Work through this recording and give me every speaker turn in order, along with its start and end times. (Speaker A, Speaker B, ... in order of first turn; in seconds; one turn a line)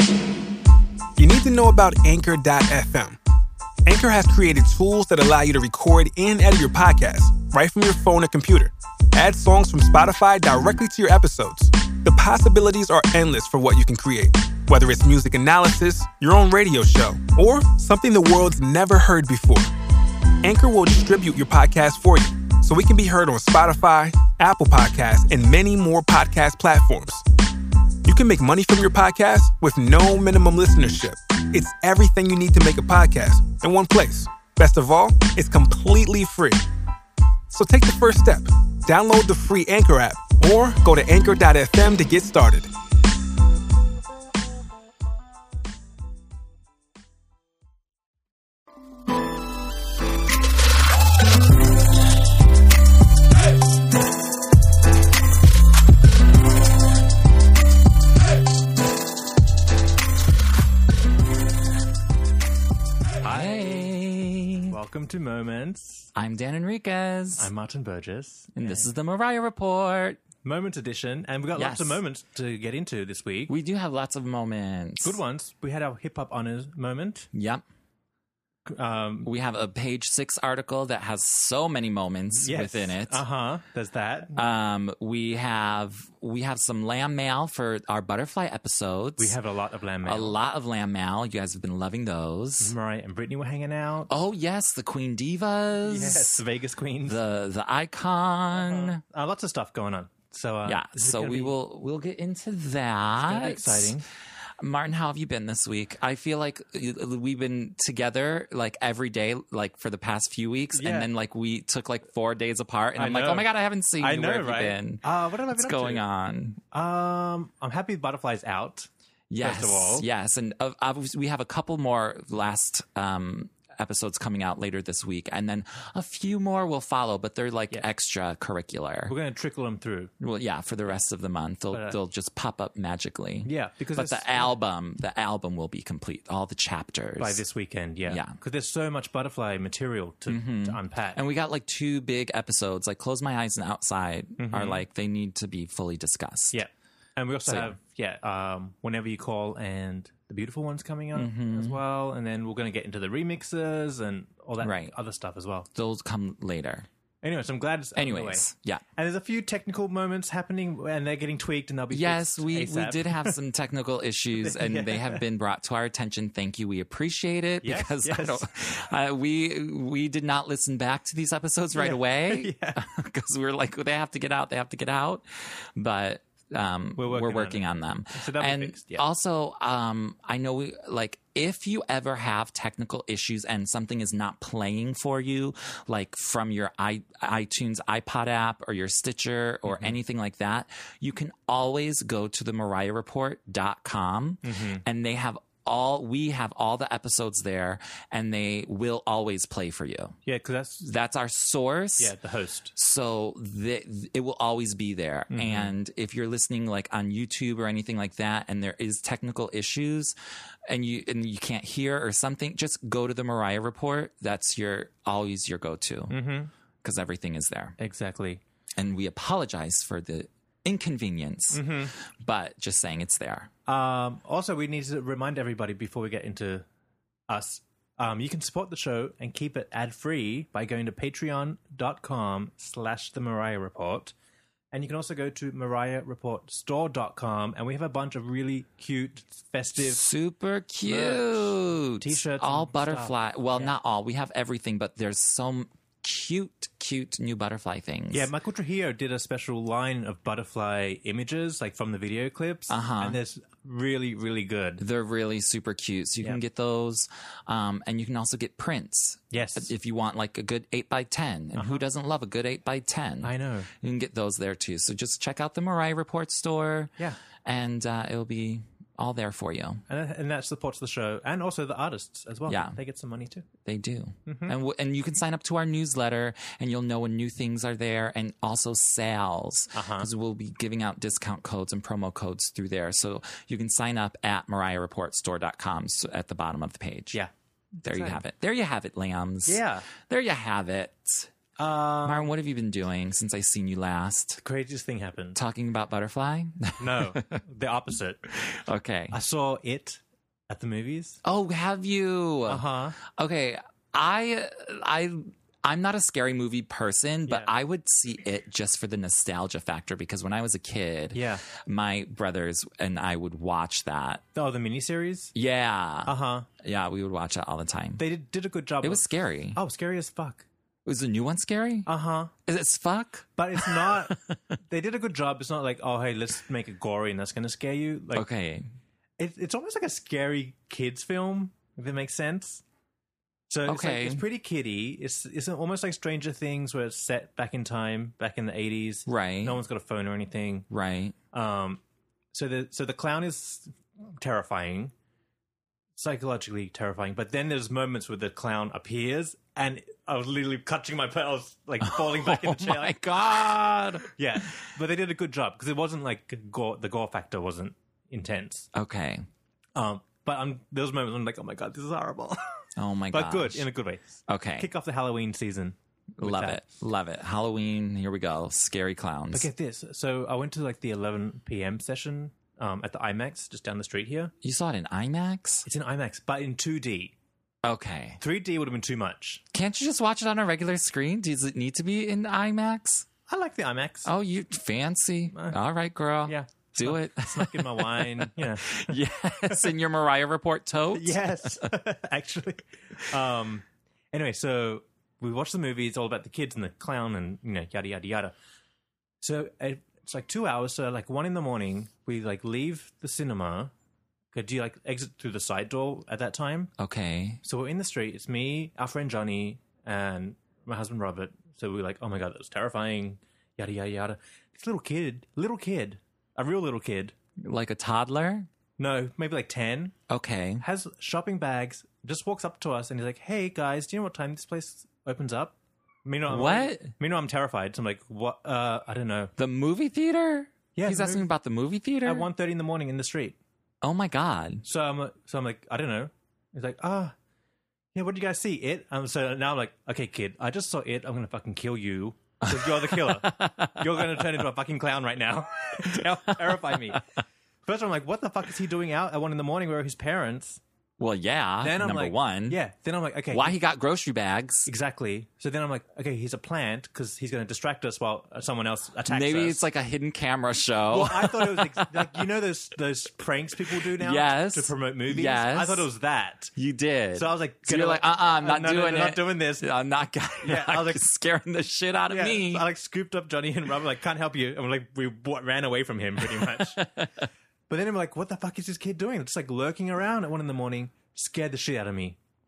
Speaker A: 1.2-3.2
Speaker A: 3.9-19.7
Speaker A: 20.4-27.2
Speaker A: 28.1-36.6
Speaker A: 37.5-42.7
Speaker B: 63.2-63.9
Speaker C: 63.2-64.8
Speaker B: 64.7-66.1
Speaker C: 66.2-67.5
Speaker B: 67.4-68.9
Speaker C: 68.5-70.2
Speaker B: 70.4-73.5
Speaker C: 71.5-72.0
Speaker C: 73.5-75.2
Speaker B: 75.0-77.3
Speaker C: 77.3-77.6
Speaker B: 78.7-79.3
Speaker C: 79.2-83.2
Speaker B: 82.4-84.4
Speaker C: 84.4-89.4
Speaker B: 89.2-90.4
Speaker C: 90.0-92.7
Speaker B: 92.6-94.1
Speaker C: 94.1-96.4
Speaker B: 95.8-97.2
Speaker C: 97.1-99.0
Speaker B: 98.5-101.5
Speaker C: 100.7-104.0
Speaker B: 103.2-104.1
Speaker C: 104.6-116.6
Speaker B: 110.7-111.1
Speaker B: 113.0-116.0
Speaker B: 116.7-118.9
Speaker C: 119.3-129.2
Speaker B: 119.4-120.1
Speaker B: 129.1-130.1
Speaker C: 130.2-137.4
Speaker B: 131.7-132.0
Speaker B: 133.4-134.6
Speaker B: 137.2-141.2
Speaker C: 138.1-138.4
Speaker C: 140.3-146.6
Speaker B: 144.4-144.8
Speaker B: 146.5-155.7
Speaker C: 147.5-147.8
Speaker C: 151.1-151.8
Speaker C: 154.6-154.9
Speaker C: 155.7-156.9
Speaker B: 157.2-163.4
Speaker C: 158.0-158.8
Speaker C: 161.9-200.2
Speaker B: 164.4-165.2
Speaker B: 167.6-168.4
Speaker B: 171.8-172.8
Speaker B: 177.0-179.1
Speaker B: 189.7-189.9
Speaker B: 194.4-194.8
Speaker B: 200.2-200.9
Speaker C: 200.8-202.1
Speaker B: 202.0-202.8
Speaker C: 202.8-210.1
Speaker B: 205.3-205.7
Speaker C: 210.7-216.2
Speaker B: 216.1-216.5
Speaker C: 216.8-217.8
Speaker B: 217.8-218.4
Speaker C: 218.8-223.5
Speaker B: 221.5-221.9
Speaker B: 223.7-226.7
Speaker B: 227.3-234.1
Speaker B: 234.7-240.0
Speaker C: 239.8-248.3
Speaker B: 240.8-243.8
Speaker B: 248.1-254.8
Speaker C: 252.7-253.2
Speaker C: 254.8-266.9
Speaker B: 259.3-259.7
Speaker B: 261.5-261.8
Speaker B: 263.2-263.7
Speaker C: 267.4-269.8
Speaker B: 269.9-273.5
Speaker C: 272.5-272.8
Speaker C: 273.6-287.2
Speaker B: 274.3-274.6
Speaker B: 279.7-280.1
Speaker C: 287.8-291.3
Speaker B: 287.9-288.2
Speaker B: 289.4-289.9
Speaker B: 291.6-292.3
Speaker C: 292.0-294.4
Speaker B: 294.4-295.4
Speaker C: 295.4-297.4
Speaker B: 296.8-298.2
Speaker C: 298.3-299.2
Speaker B: 299.1-301.2
Speaker C: 301.2-314.2
Speaker B: 302.5-303.0
Speaker B: 311.1-311.4
Speaker B: 314.4-315.3
Speaker C: 315.4-318.0
Speaker B: 316.1-316.5
Speaker B: 318.0-320.5
Speaker C: 318.8-319.6
Speaker C: 320.9-321.9
Speaker B: 321.9-322.3
Speaker C: 322.4-324.3
Speaker B: 323.4-328.3
Speaker C: 328.1-328.7
Speaker B: 329.2-332.6
Speaker B: 333.5-340.7
Speaker C: 333.7-334.2
Speaker C: 339.1-339.6
Speaker C: 340.7-341.2
Speaker B: 341.3-341.8
Speaker B: 342.3-344.9
Speaker B: 346.0-353.0
Speaker C: 351.8-354.1
Speaker B: 354.1-358.7
Speaker C: 358.7-359.2
Speaker B: 359.8-362.4
Speaker C: 362.8-363.7
Speaker B: 363.1-366.7
Speaker C: 364.3-364.7
Speaker C: 366.2-369.5
Speaker B: 369.3-374.3
Speaker C: 374.4-375.7
Speaker B: 375.6-377.1
Speaker C: 377.6-378.2
Speaker B: 378.2-379.4
Speaker C: 379.5-383.1
Speaker B: 383.3-384.1
Speaker C: 384.1-391.7
Speaker B: 386.2-389.7
Speaker B: 390.9-398.3
Speaker B: 399.2-403.7
Speaker B: 404.3-406.7
Speaker C: 406.8-407.4
Speaker B: 407.4-417.1
Speaker C: 417.4-418.5
Speaker B: 418.8-419.9
Speaker C: 420.1-420.6
Speaker B: 420.6-429.3
Speaker C: 426.3-426.9
Speaker C: 429.4-432.3
Speaker B: 430.8-431.3
Speaker B: 432.1-433.4
Speaker C: 433.8-434.6
Speaker B: 434.6-437.1
Speaker B: 437.9-447.0
Speaker C: 442.4-444.3
Speaker C: 445.8-447.0
Speaker B: 447.7-450.6
Speaker C: 451.0-452.6
Speaker B: 451.6-453.6
Speaker C: 453.3-454.7
Speaker B: 454.7-459.7
Speaker C: 459.1-462.2
Speaker B: 460.9-466.5
Speaker C: 463.9-465.9
Speaker C: 466.6-472.6
Speaker B: 467.1-469.7
Speaker B: 470.4-471.1
Speaker B: 472.1-476.9
Speaker C: 476.3-477.2
Speaker B: 477.7-482.2